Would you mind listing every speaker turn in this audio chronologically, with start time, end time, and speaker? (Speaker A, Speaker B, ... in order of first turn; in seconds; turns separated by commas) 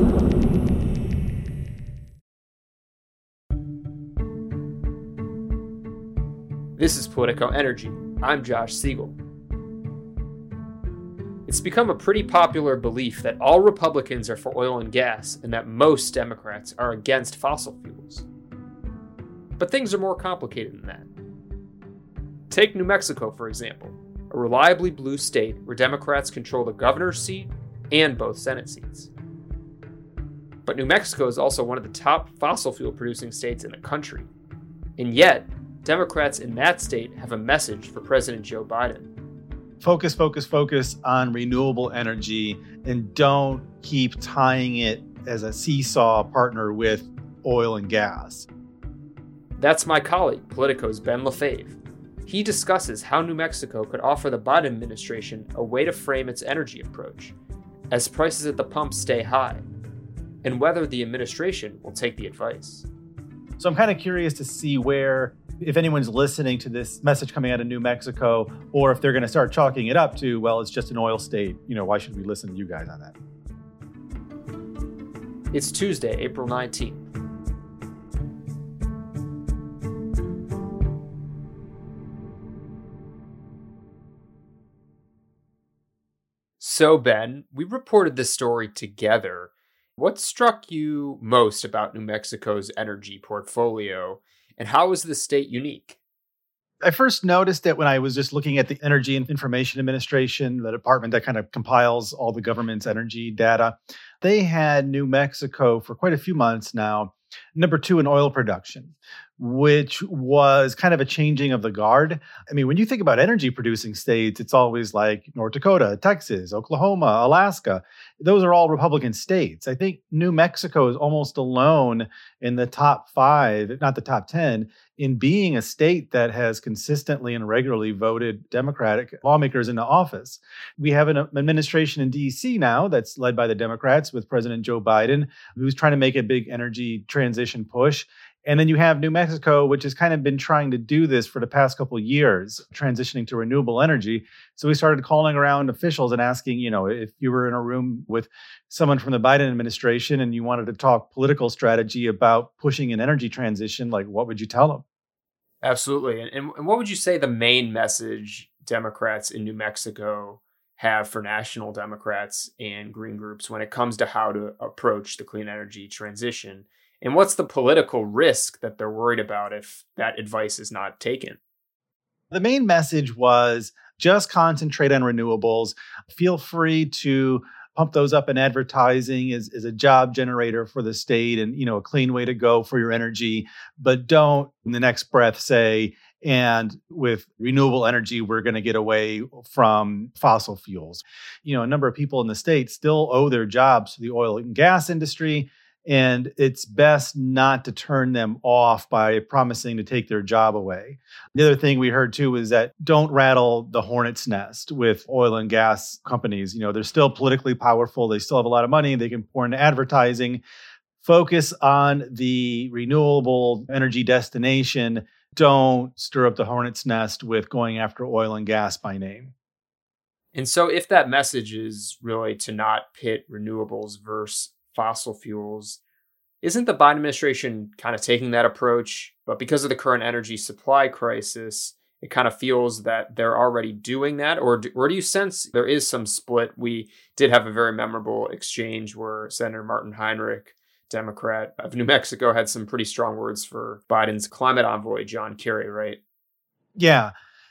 Speaker A: 6.8-9.2, Speaker A: 11.4-18.3, Speaker A: 19.6-21.1, Speaker A: 22.5-29.1, Speaker A: 30.7-34.3, Speaker A: 35.0-39.1, Speaker B: 39.8-48.5, Speaker A: 49.6-57.3, Speaker A: 57.9-59.6, Speaker A: 60.4-62.9, Speaker B: 63.6-73.2, Speaker A: 75.5-77.1, Speaker A: 86.6-96.0, Speaker B: 96.8-154.8, Speaker A: 155.6-171.4, Speaker B: 172.3-210.4, Speaker B: 211.0-219.3, Speaker A: 220.3-225.8, Speaker A: 226.4-246.0, Speaker B: 246.8-247.1